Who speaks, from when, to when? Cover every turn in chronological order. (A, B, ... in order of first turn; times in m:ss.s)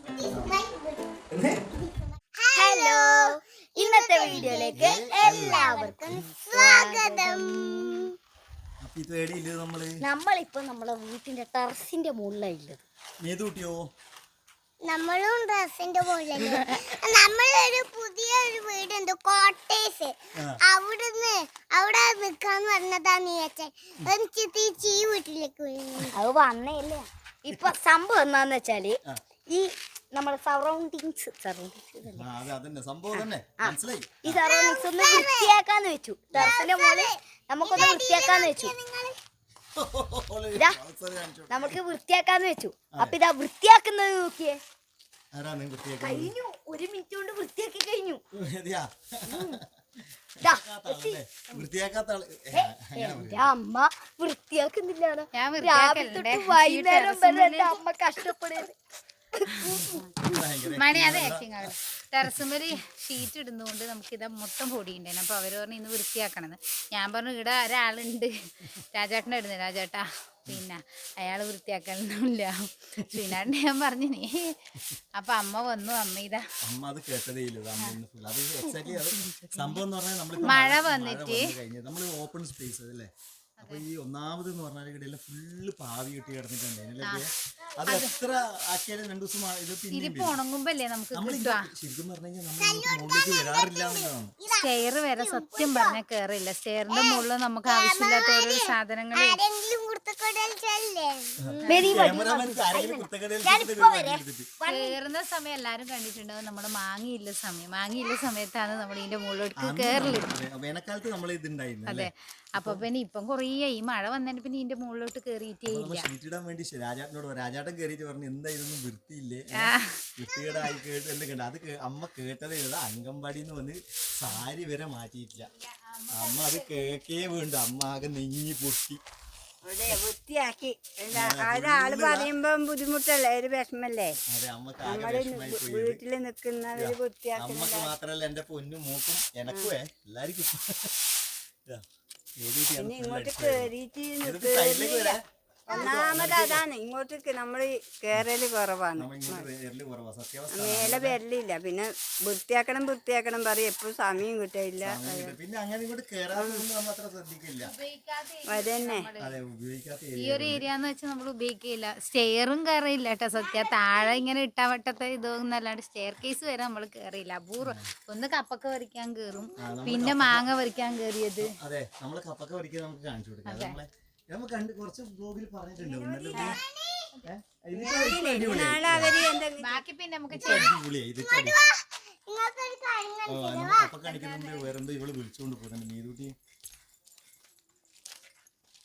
0:00.2-0:01.1 A
0:00.3-0:00.6 B
0:01.3-0:01.6 B
0:01.9-0:08.0 A
0:02.5-0:08.1 C
0:04.3-0:06.2 B
0:08.8-0:10.0 B
0:10.0-0:12.8 C
0:13.2-0:13.8 B
0:14.8-0:20.2 A
0:20.7-0:26.2 A
0:26.1-0:29.0 C
0:29.5-0:32.3 C
0:32.1-0:34.4 B
0:33.6-0:38.7 C
0:34.4-0:35.5 A
0:36.3-0:39.2 A
0:39.7-0:41.8 B
0:41.5-0:44.6 C
0:42.9-0:43.2 B
0:45.3-0:46.3 B
0:46.0-0:48.2 C
0:48.3-0:49.8 B
0:49.3-0:49.6 C
0:50.4-0:53.5 B
0:50.4-0:51.6 C
0:52.5-0:58.7 C
0:55.3-0:57.8 D
0:59.4-1:00.1 C
0:59.5-1:00.0 D
1:00.2-1:01.7 B
1:00.7-1:14.5 D
1:13.0-1:13.4 B
1:15.1-1:16.4 D
1:16.6-1:27.3 B
1:18.7-1:19.8 D
1:20.4-1:21.5 D
1:23.6-1:23.8 D
1:27.8-1:30.4 B
1:29.9-1:31.6 D
1:31.1-1:34.3 B
1:32.6-1:35.7 A
1:34.5-1:39.4 D
1:35.6-1:35.9 C
1:36.9-1:41.3 A
1:41.4-1:44.5 B
1:41.5-1:45.0 C
1:41.6-1:41.9 D
1:44.6-1:50.3 D
1:49.6-1:52.8 B
1:51.9-1:56.1 D
1:55.7-2:05.5 B
1:59.6-2:00.1 D
2:05.5-2:06.7 D
2:06.1-2:09.0 B
2:09.6-2:14.2 E
2:11.1-2:12.3 B
2:14.3-2:16.0 B
2:14.8-2:17.9 E
2:16.8-2:21.8 B
2:19.5-2:19.7 E
2:22.4-2:23.7 B
2:22.8-2:29.5 E
2:24.2-2:26.6 B
2:29.0-2:31.2 B
2:30.5-2:35.4 E
2:34.8-2:37.7 B
2:36.3-2:36.6 E
2:37.6-2:39.4 D
2:38.5-2:39.1 E
2:39.2-2:40.7 B
2:40.2-2:51.5 D
2:47.6-2:47.9 B
2:49.6-2:50.5 B
2:51.4-2:56.6 B
2:53.4-2:53.8 D
2:56.1-2:57.1 A
2:57.2-2:59.2 B
2:57.7-2:59.8 E
2:59.6-3:00.7 D
3:00.3-3:01.6 B
3:01.2-3:03.9 A
3:03.3-3:06.3 B
3:04.1-3:04.6 D